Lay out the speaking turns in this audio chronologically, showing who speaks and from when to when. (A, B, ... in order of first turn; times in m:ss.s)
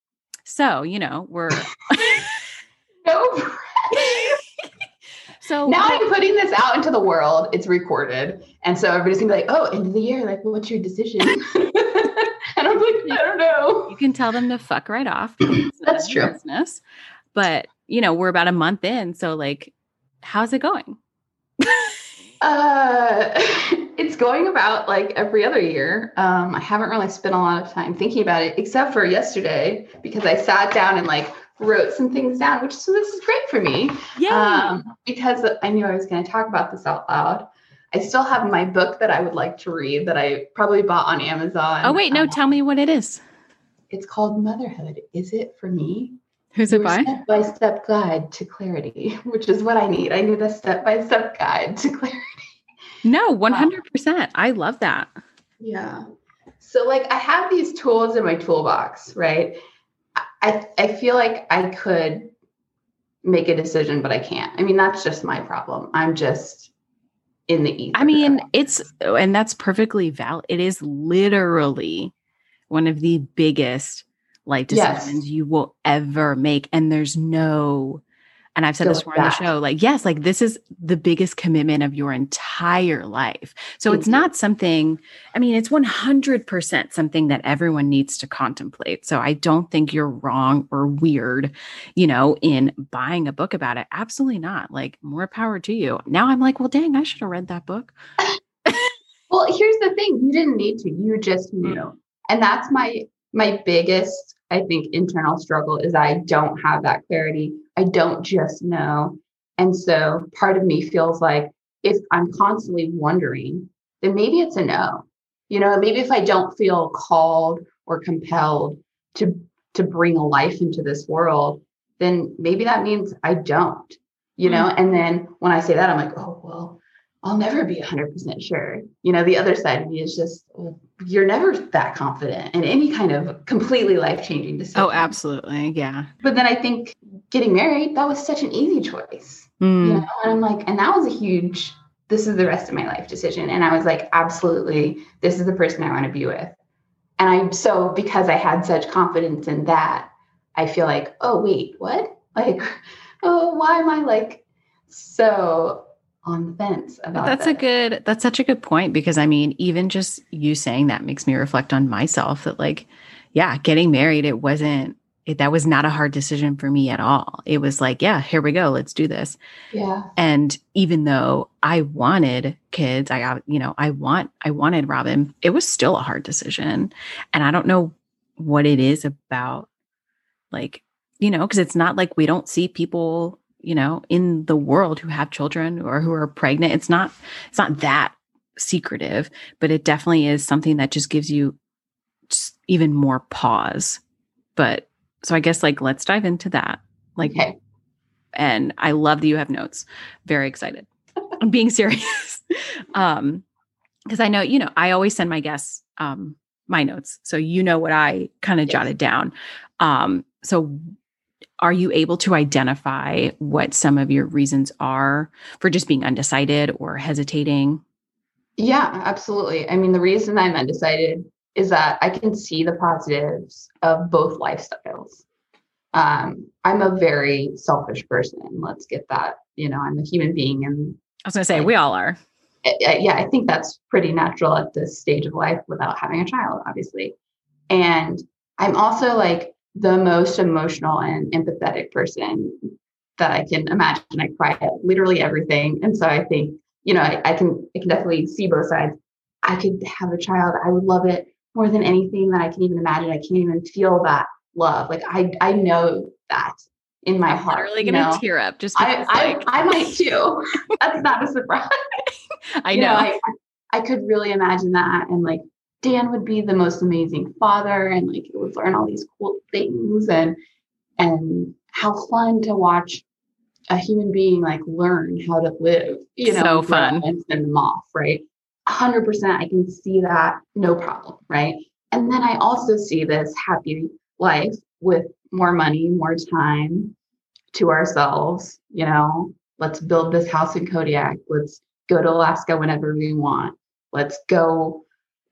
0:00.4-0:02.4 A
0:03.0-0:04.4 B
0:03.9-0:04.4 A
0:05.4-0:06.1 A
0:05.7-0:14.0 B
0:13.9-0:16.8 A
0:15.6-0:16.4 B
0:17.4-0:21.0 A
0:21.6-0:22.0 A
0:22.4-0:42.4 B
0:34.2-0:34.8 A
0:41.8-0:43.2 A
0:43.9-0:46.2 B
0:46.6-0:47.2 A
0:46.7-0:52.3 B
0:53.0-0:55.1 A
0:53.5-0:53.7 B
0:55.6-0:56.0 B
0:56.6-0:59.6 B
1:00.2-1:02.3 B
1:03.2-1:06.7 B
1:07.5-1:08.5 B
1:08.0-1:12.1 A
1:12.7-1:18.0 A
1:14.7-1:15.2 B
1:18.6-1:37.9 A
1:18.8-1:19.5 B
1:23.9-1:24.3 B
1:38.7-1:38.9 A
1:39.3-2:15.1 B
2:14.8-2:16.1 A
2:16.2-2:26.6 B
2:19.6-2:20.1 A
2:27.2-2:37.6 B
2:37.2-2:49.4 A
2:49.7-2:50.1 B
2:50.2-2:59.7 A
3:00.5-3:11.6 A
3:12.3-3:14.0 A
3:14.6-3:17.5 A
3:17.2-3:17.6 B
3:18.4-3:20.9 A
3:21.4-3:23.4 A
3:24.1-3:30.8 A
3:31.6-3:37.8 A
3:38.6-3:45.2 B
3:45.9-3:51.0 B
3:51.3-3:52.2 A
3:52.6-3:57.2 B
3:57.7-4:18.2 B
4:17.3-4:19.9 A
4:18.8-4:21.7 B
4:22.6-4:23.2 A
4:22.7-4:30.4 B
4:31.0-4:33.0 B
4:33.7-4:47.0 B
4:36.2-4:37.1 A
4:47.5-4:54.8 B